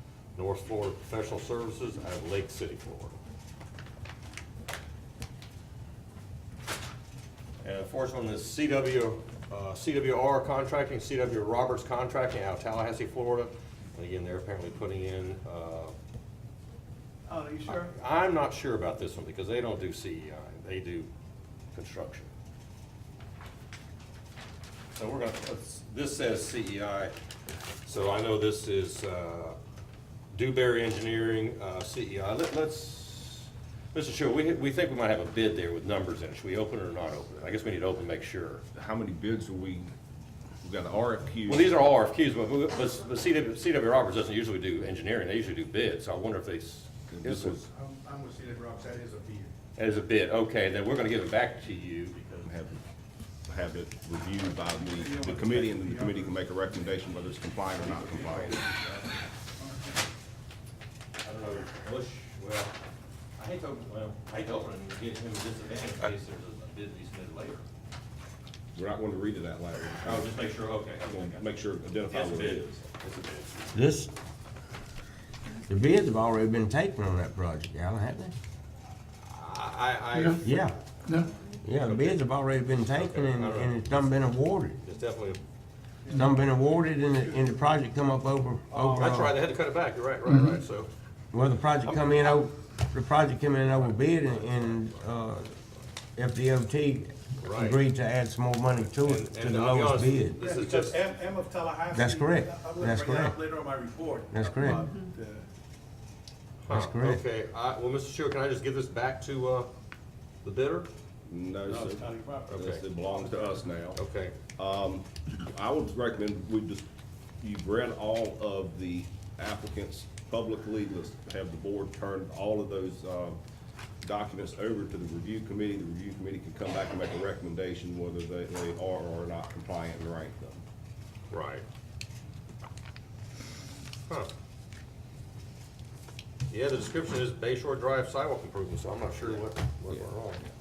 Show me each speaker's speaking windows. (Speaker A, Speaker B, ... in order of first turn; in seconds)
Speaker A: 0.4-3.2, 7.6-15.9, 17.7-21.1, 21.7-22.3, 24.9-27.1, 27.8-29.6, 30.3-38.6, 41.5-47.6, 49.8-52.5, 61.2-62.7, 63.4-67.7, 70.0-71.5, 72.1-73.7, 79.2-80.5, 81.8-82.2, 82.9-83.8, 84.8-85.4, 89.0-90.9, 94.3-94.9, 97.4-97.8, 98.8-101.0, 106.6-109.7, 110.4-110.9, 112.5-112.8, 114.0-114.3, 131.3-131.6, 136.5-140.4
Speaker B: 17.3-17.9, 47.5-49.5, 54.6-56.5, 57.7-60.0, 86.0-86.6, 87.1-87.5, 88.7-89.2, 100.4-105.5, 111.6-113.6
Speaker C: 38.7-39.9, 40.6-41.7, 47.1-47.7, 52.5-52.8, 53.5-58.7, 68.8-70.4, 71.1-72.8, 111.3-114.0, 114.6-116.8, 117.4-123.4, 124.0-130.6
Speaker D: 73.7-74.1, 75.7-78.3, 80.4-80.8, 81.6-84.8, 86.1-89.4, 91.3-95.5, 96.2-100.4, 101.9-103.4, 104.3-104.9, 106.7-107.2